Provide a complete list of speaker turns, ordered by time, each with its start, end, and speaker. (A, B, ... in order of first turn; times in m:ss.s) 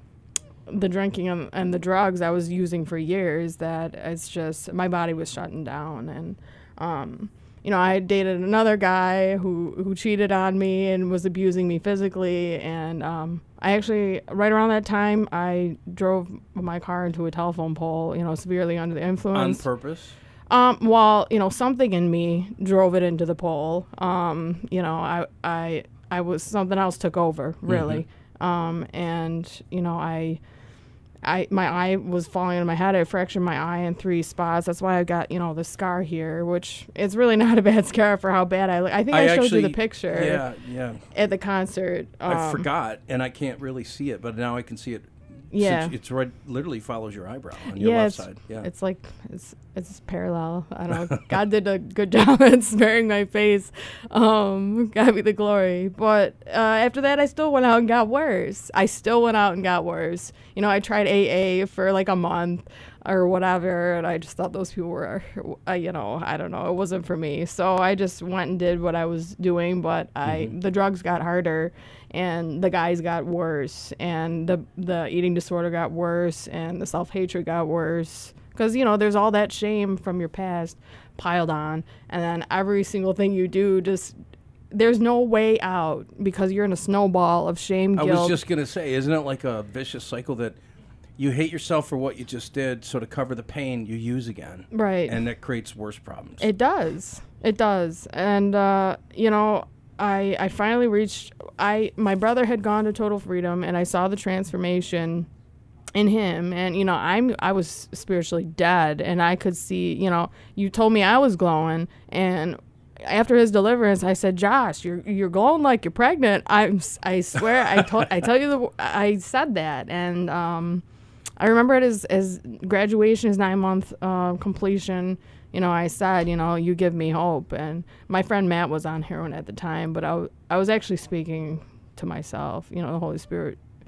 0:00.7-0:19.6 A
0:19.3-0:20.2 B
0:20.5-0:30.4 A
0:27.7-0:28.0 B
0:31.2-0:40.4 A
0:39.1-0:41.0 B
0:41.1-0:42.7 A
0:42.2-0:48.7 B
0:45.5-0:45.9 A
0:47.7-1:24.1 A
1:10.2-1:10.5 B
1:24.7-1:28.4 A
1:28.0-1:30.6 B
1:31.2-1:36.4 B
1:34.7-1:35.2 A
1:36.4-1:45.3 A
1:45.9-2:00.8 A
2:01.4-2:13.6 A